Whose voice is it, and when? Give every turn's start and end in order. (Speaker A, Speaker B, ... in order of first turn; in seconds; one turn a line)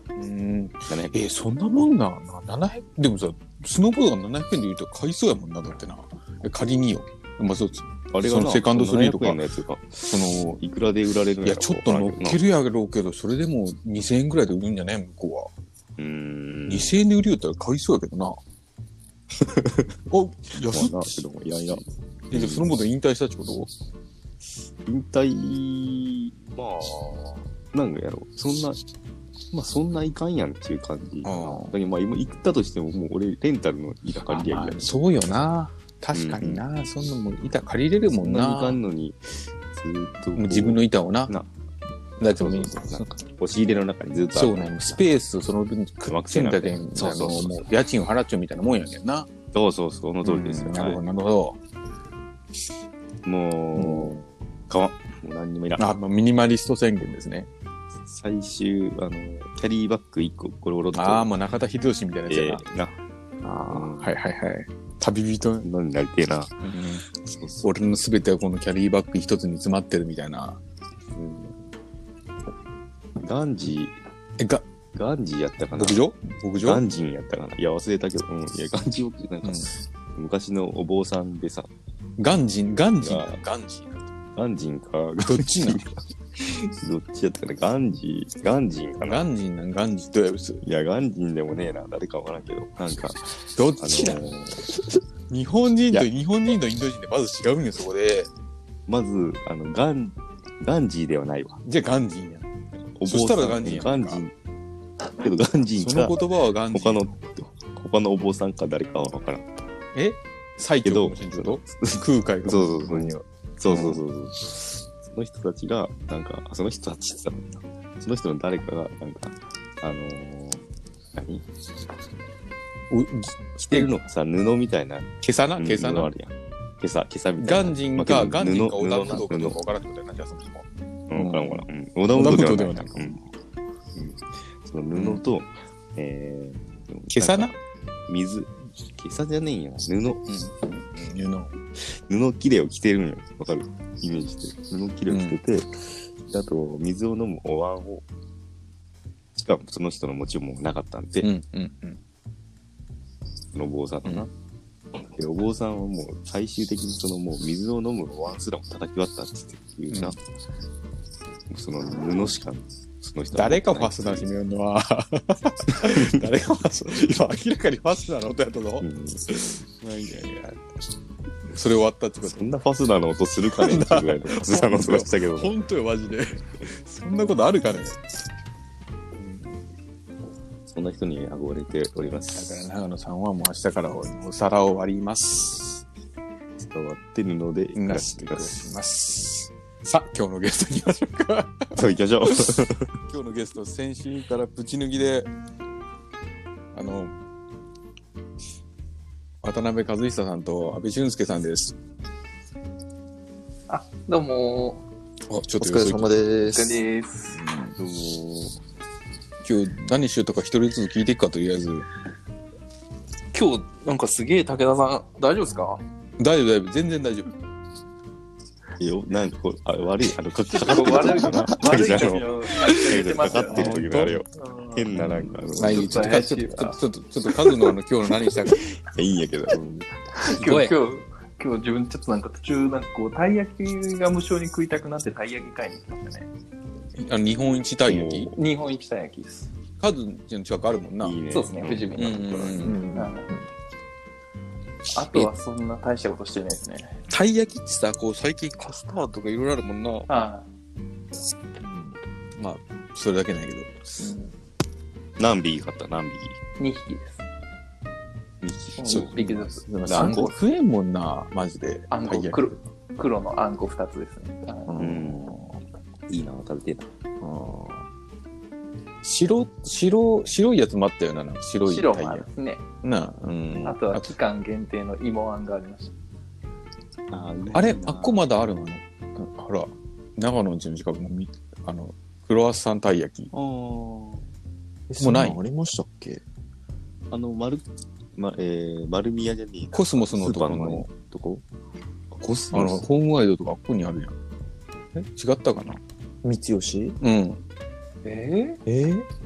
Speaker A: 0.1-9.4
Speaker B: 0.9-1.2
Speaker B: 8.1-12.4
Speaker A: 10.1-10.6
Speaker A: 11.4-15.5
Speaker B: 16.0-16.9
Speaker A: 16.7-18.4
Speaker B: 19.4-19.9
Speaker A: 20.1-21.1
Speaker B: 20.6-22.7
Speaker A: 22.3-23.7
Speaker B: 24.9-28.8
Speaker B: 29.5-35.0
Speaker A: 31.2-31.8
Speaker A: 34.3-38.8
Speaker B: 36.1-36.6
Speaker B: 38.2-41.5
Speaker A: 40.4-41.3
Speaker A: 42.2-43.0
Speaker B: 42.4-45.0
Speaker A: 44.3-49.3
Speaker B: 46.1-47.6
Speaker B: 49.5-51.0
Speaker A: 50.2-51.6
Speaker B: 53.2-55.9
Speaker A: 53.7-54.2
Speaker A: 55.8-57.5
Speaker B: 58.0-61.3
Speaker A: 60.9-62.6
Speaker B: 62.3-63.0
Speaker A: 63.4-65.7
Speaker B: 63.7-64.1
Speaker B: 65.6-66.5
Speaker A: 66.6-67.0
Speaker B: 67.1-67.7
Speaker A: 67.6-70.6
Speaker B: 71.1-71.6
Speaker B: 73.2-74.0
Speaker A: 74.4-74.6
Speaker B: 74.9-76.0
Speaker A: 75.7-76.8
Speaker B: 76.6-81.7
Speaker A: 79.4-79.7
Speaker A: 82.2-84.1
Speaker B: 83.0-83.4
Speaker B: 84.3-89.3
Speaker A: 85.2-85.8
Speaker A: 89.0-90.6
Speaker B: 90.6-94.8
Speaker A: 93.4-94.2
Speaker A: 95.3-98.3
Speaker B: 98.9-101.6
Speaker A: 101.6-102.5
Speaker B: 102.9-104.3
Speaker A: 103.0-104.2
Speaker B: 105.1-109.5
Speaker A: 105.8-107.1
Speaker A: 109.9-114.0
Speaker B: 110.8-120.6
Speaker B: 121.1-121.5
Speaker A: 122.9-123.9
Speaker B: 123.7-129.6
Speaker A: 125.2-126.1
Speaker A: 127.4-133.3
Speaker B: 131.1-133.2
Speaker B: 133.9-140.2
Speaker A: 134.9-135.2
Speaker A: 137.1-137.5
Speaker A: 140.3-141.6
Speaker B: 141.8-145.7
Speaker A: 145.1-145.4
Speaker B: 146.2-148.0
Speaker B: 149.3-151.3
Speaker A: 151.2-152.0
Speaker B: 153.5-154.3
Speaker B: 155.1-160.2
Speaker A: 159.9-160.2
Speaker B: 161.5-164.3
Speaker A: 163.3-170.6
Speaker B: 165.7-166.3
Speaker B: 166.9-167.2
Speaker B: 168.8-169.6
Speaker A: 171.5-172.4
Speaker B: 172.2-175.6
Speaker A: 173.5-178.0
Speaker A: 179.2-179.6
Speaker B: 180.7-182.7
Speaker A: 182.3-185.8
Speaker B: 186.6-188.7
Speaker A: 187.7-192.4
Speaker B: 191.8-192.9
Speaker A: 193.1-195.3
Speaker A: 196.7-197.1
Speaker A: 199.4-201.7
Speaker C: 203.7-204.8
Speaker A: 205.3-206.1
Speaker D: 205.6-206.8
Speaker C: 206.4-207.4
Speaker A: 207.3-207.7
Speaker B: 207.7-208.6
Speaker A: 209.4-211.9
Speaker C: 213.3-215.8
Speaker A: 216.2-217.3
Speaker B: 218.8-226.2
Speaker C: 220.5-224.9
Speaker A: 221.7-224.2
Speaker A: 224.9-228.6
Speaker C: 225.5-226.8
Speaker B: 228.6-229.9
Speaker C: 230.2-236.3
Speaker A: 230.3-230.8
Speaker A: 237.0-238.3
Speaker B: 237.8-238.3
Speaker C: 238.3-239.5
Speaker A: 239.8-241.2
Speaker B: 241.0-242.8
Speaker C: 241.3-242.3
Speaker A: 241.9-242.8
Speaker D: 242.6-243.5
Speaker C: 242.9-243.3
Speaker C: 244.9-247.0
Speaker A: 245.1-245.3
Speaker A: 247.1-250.1
Speaker C: 250.1-250.4
Speaker D: 251.6-251.9
Speaker A: 252.3-254.1
Speaker C: 254.0-254.3
Speaker B: 255.2-256.4
Speaker C: 256.6-257.2
Speaker B: 258.4-259.1
Speaker C: 258.8-260.2
Speaker A: 258.8-262.5
Speaker B: 259.8-260.3
Speaker C: 261.9-264.7
Speaker A: 264.7-265.6
Speaker B: 264.8-265.5
Speaker B: 266.1-266.9
Speaker A: 267.2-267.8
Speaker A: 269.0-272.3
Speaker C: 271.6-272.6
Speaker A: 272.8-274.1
Speaker C: 273.6-275.9
Speaker B: 277.1-278.2
Speaker A: 277.5-283.3
Speaker B: 283.3-284.2
Speaker D: 284.9-286.2
Speaker A: 285.0-285.4
Speaker B: 287.1-291.4
Speaker A: 289.7-290.9
Speaker B: 292.1-292.9
Speaker A: 292.5-294.1
Speaker A: 294.9-295.8
Speaker D: 296.2-297.0
Speaker A: 297.0-297.4
Speaker C: 298.0-298.6
Speaker A: 298.7-299.0